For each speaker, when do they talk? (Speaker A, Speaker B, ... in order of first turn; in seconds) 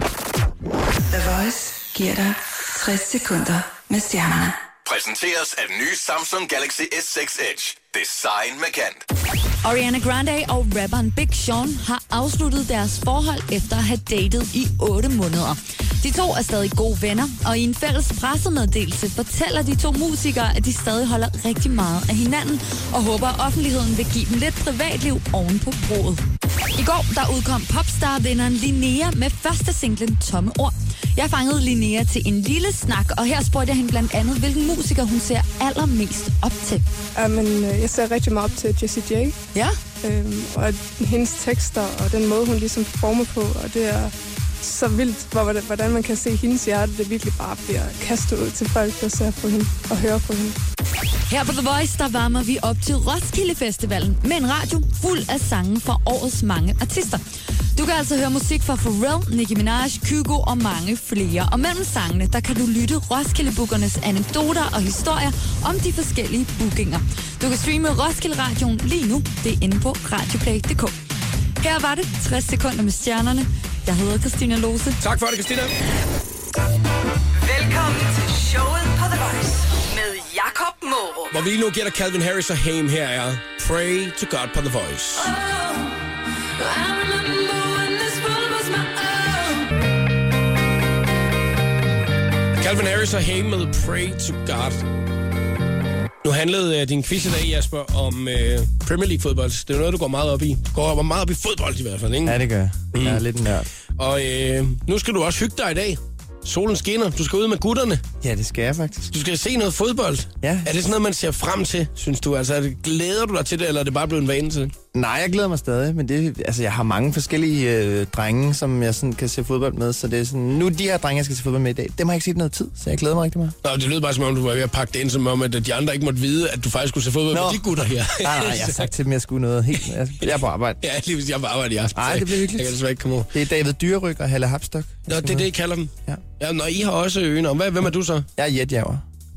Speaker A: 1.1-4.6, 77.4-81.3, 85.2-86.0, 86.6-89.7
Speaker B: 4.8-9.0
Speaker C: 9.6-26.2, 26.7-36.8, 39.5-39.8, 51.3-57.2, 57.8-70.9, 71.6-75.0
Speaker D: 37.1-39.4, 40.0-50.5
Speaker E: 75.0-75.7, 81.3-85.3, 92.6-94.8, 96.2-102.4, 102.9-103.2, 104.0-108.0, 109.1-114.7, 123.6-128.9, 130.8-133.3, 135.1-138.2
Speaker F: 102.2-103.7, 108.2-109.1, 110.4-110.7, 114.9-123.5, 127.3-130.8, 131.9-132.8, 133.3-135.4, 138.3-139.0